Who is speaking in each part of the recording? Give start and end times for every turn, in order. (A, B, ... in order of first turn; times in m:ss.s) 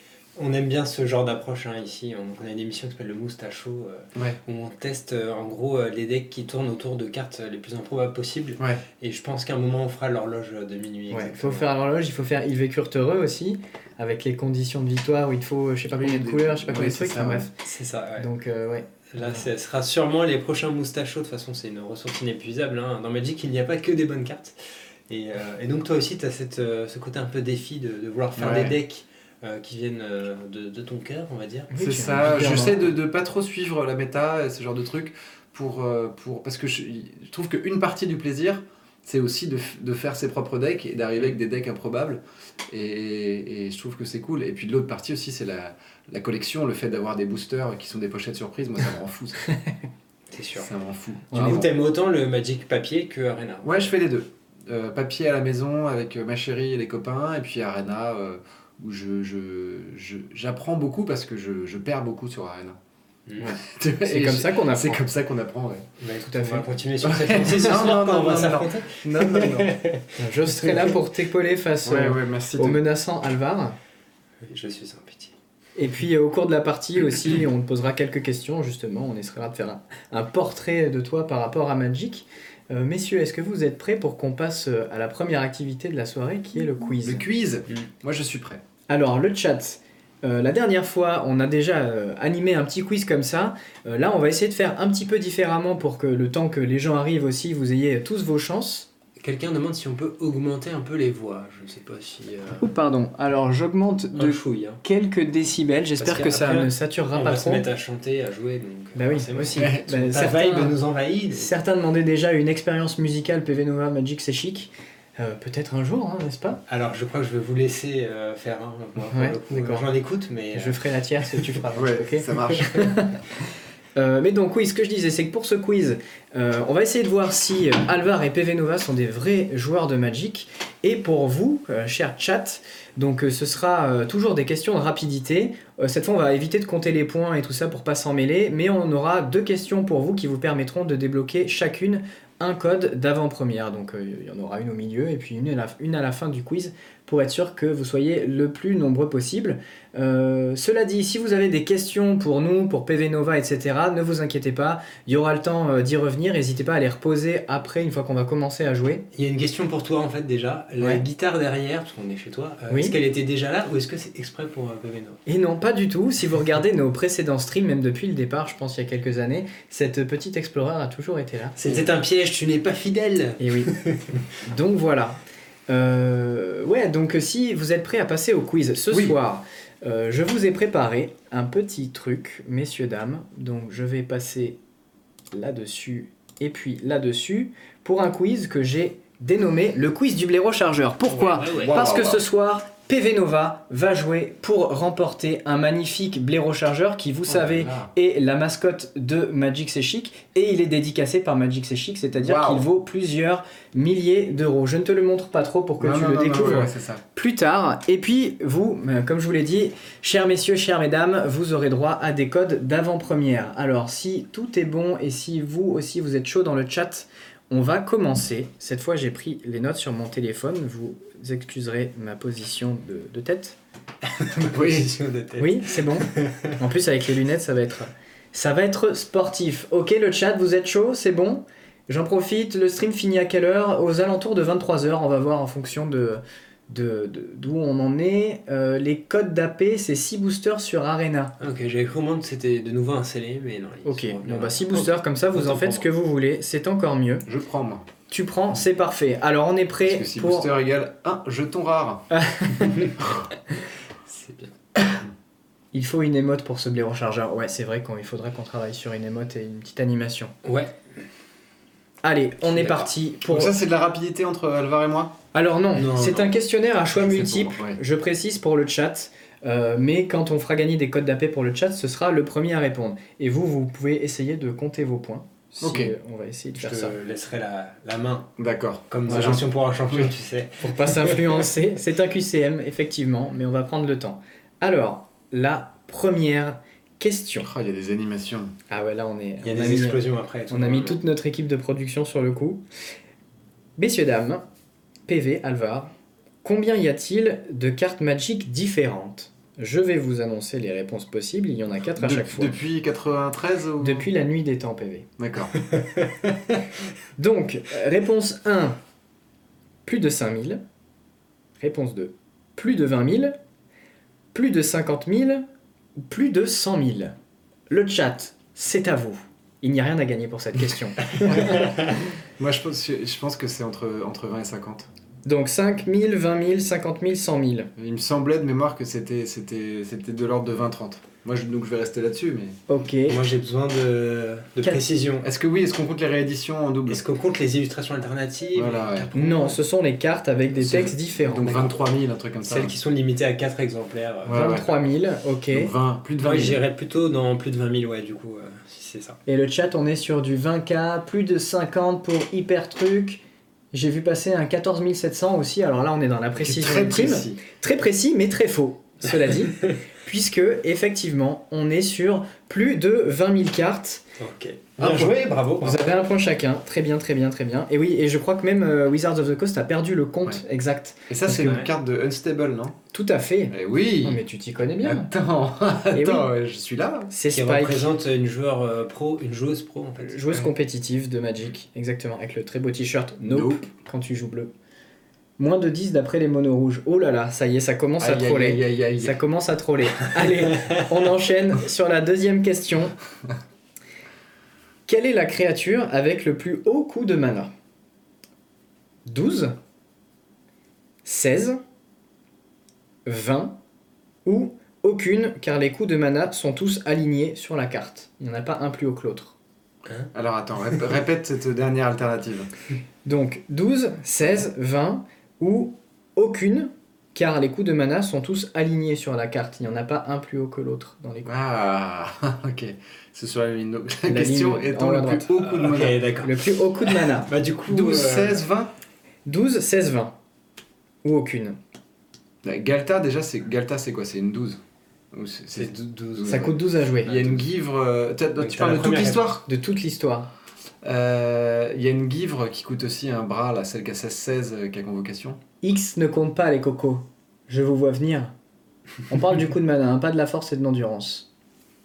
0:00.4-0:11.7 A
0:11.1-0:17.5 B
0:15.9-0:17.5 C
0:17.6-0:18.3 A
0:18.2-0:19.4 B
0:19.1-0:24.6 A
0:25.1-0:31.7 A
0:28.4-0:28.8 C
0:31.7-0:32.9 B
0:31.8-0:49.4 C
0:50.3-0:50.7 A
0:50.6-0:51.7 C
0:51.3-0:51.7 B
0:51.3-0:53.8 A
0:53.6-1:02.8 C
1:03.3-1:03.5 A
1:03.4-1:05.0 B
1:03.6-1:05.9 C
1:06.0-1:11.0 A
1:06.2-1:06.7 B
1:07.0-1:09.8 C
1:10.2-1:13.8 B
1:11.8-1:12.8 C
1:14.4-1:15.3 A
1:15.8-1:27.2 B
1:27.0-1:28.6 C
1:28.9-1:38.9 B
1:39.2-1:42.7 A
1:42.6-1:47.6 B
1:44.1-1:44.8 A
1:46.0-1:51.5 A
1:49.0-1:50.8 B
1:49.6-1:49.9 C
1:51.3-1:56.6 B
1:56.7-2:00.8 A
1:59.1-1:59.9 B
2:00.5-2:03.2 B
2:01.7-2:02.7 C
2:04.0-2:39.0 B
2:39.1-2:45.2 A
2:42.7-2:43.0 B
2:45.3-2:51.9 B
2:51.6-2:54.2 A
2:53.4-2:53.7 B
2:54.4-3:04.6 B
2:58.9-2:59.2 C
3:05.3-3:43.6 B
3:11.1-3:11.9 A
3:11.5-3:12.2 C
3:17.3-3:17.9 C
3:22.2-3:22.7 C
3:25.8-3:27.0 C
3:44.2-3:46.6 A
3:44.5-3:45.0 C
3:45.4-4:01.4 B
4:01.4-4:05.9 A
4:03.8-4:07.3 B
4:07.3-4:07.9 C
4:08.1-4:10.5 B
4:09.8-4:12.1 C
4:12.1-4:12.9 B
4:14.1-4:14.5 A
4:15.7-4:20.3 B
4:20.4-4:20.7 A
4:22.0-4:23.6 B
4:22.5-4:25.2 C
4:25.3-4:37.0 B
4:25.8-4:26.3 A
4:27.0-4:27.8 C
4:35.6-4:35.9 C
4:36.6-4:38.3 A
4:38.4-4:40.1 C
4:38.9-4:41.5 A
4:39.1-4:39.4 B
4:40.6-4:47.5 B
4:47.4-4:48.5 C
4:48.7-4:52.6 B
4:49.4-4:51.0 A
4:53.8-4:54.4 B
4:55.1-4:55.9 B
4:56.4-5:02.6 B
5:02.0-5:04.1 C
5:03.8-5:05.1 B
5:05.2-5:05.6 C
5:07.2-5:08.8 B
5:09.9-5:10.6 B
5:11.6-5:13.4 B
5:14.3-5:15.4 B
5:16.0-5:17.2 B
5:17.7-5:21.7 B
5:21.3-5:21.6 C
5:22.4-5:24.9 C
5:25.2-5:27.7 B
5:27.8-5:32.6 C
5:32.7-5:33.2 B
5:33.1-5:35.3 A
5:35.2-5:37.0 C
5:36.9-5:39.6 A
5:38.6-5:39.1 C
5:39.2-5:41.7 B
5:40.6-5:42.8 C
5:42.4-5:44.4 A
5:44.3-5:44.7 C
5:44.3-5:45.7 B
5:45.5-5:46.6 C
5:46.2-5:49.2 A
5:49.3-5:53.2 B
5:53.7-6:04.0 B
5:56.4-5:57.4 C
6:04.2-6:05.9 A
6:04.8-6:05.1 C
6:05.6-6:11.6 B
6:11.1-6:12.8 C
6:11.3-6:11.7 A
6:12.9-6:15.1 B
6:13.5-6:14.2 C
6:14.8-6:17.1 C
6:15.9-6:16.3 B
6:17.1-6:17.9 B
6:17.3-6:20.3 A
6:20.0-6:24.5 B
6:23.3-6:23.7 C
6:25.4-6:33.0 B
6:28.0-6:29.2 C
6:34.9-6:37.5 B
6:39.1-6:39.6 B
6:41.0-6:41.6 B
6:43.1-6:43.6 B
6:44.2-6:49.4 B
6:50.1-6:52.5 C
6:53.0-7:01.3 B
7:01.2-7:06.1 C
7:04.0-7:05.5 B
7:05.4-7:08.4 A
7:06.2-7:07.3 B
7:07.7-7:08.7 C
7:09.3-7:10.2 B
7:11.0-7:11.6 B
7:12.4-7:14.6 C
7:15.1-7:19.4 C
7:15.6-7:17.4 A
7:16.3-7:17.1 B
7:18.4-7:19.3 A
7:19.5-7:20.3 B
7:20.8-7:25.4 C
7:25.6-7:28.3 B
7:29.1-7:31.3 B